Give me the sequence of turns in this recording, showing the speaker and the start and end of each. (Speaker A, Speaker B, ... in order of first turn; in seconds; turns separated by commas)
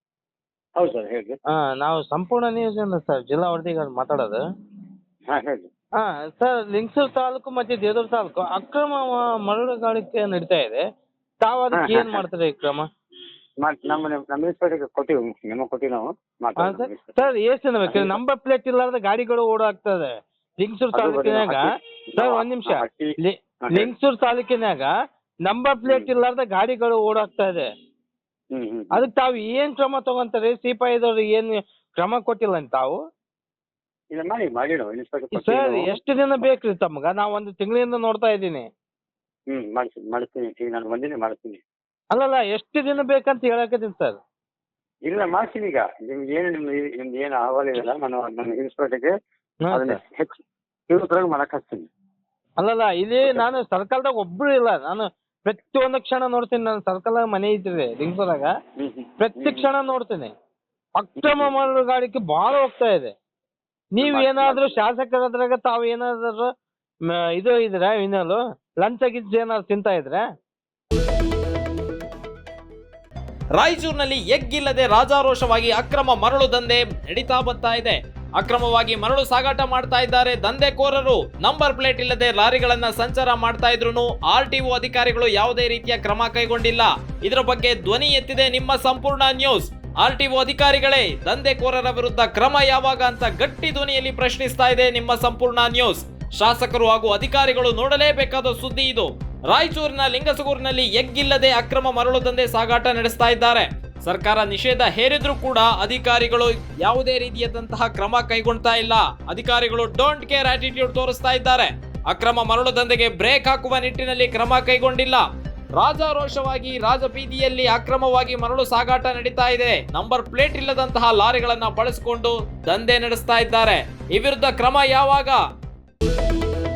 Speaker A: 0.8-1.4, Speaker B: 1.6-4.4, Speaker A: 5.3-5.7, Speaker B: 6.0-10.8, Speaker B: 11.4-12.9, Speaker A: 11.7-12.2, Speaker A: 13.6-17.3, Speaker B: 16.6-21.6, Speaker A: 17.9-18.2, Speaker A: 20.9-23.1, Speaker B: 22.2-24.9, Speaker B: 25.5-27.7, Speaker A: 28.5-29.0, Speaker B: 28.9-33.0, Speaker A: 34.1-36.0, Speaker B: 35.4-38.7, Speaker A: 39.5-41.6, Speaker B: 42.1-44.2, Speaker A: 45.1-49.1, Speaker B: 49.6-50.0, Speaker A: 49.7-50.4, Speaker A: 50.9-51.9, Speaker B: 52.6-58.5, Speaker A: 58.8-59.7, Speaker B: 59.2-60.3, Speaker B: 61.0-63.1, Speaker A: 61.2-61.5, Speaker B: 64.0-66.5, Speaker A: 64.0-64.8, Speaker B: 67.1-70.2, Speaker C: 73.6-115.2, Speaker C: 115.8-125.4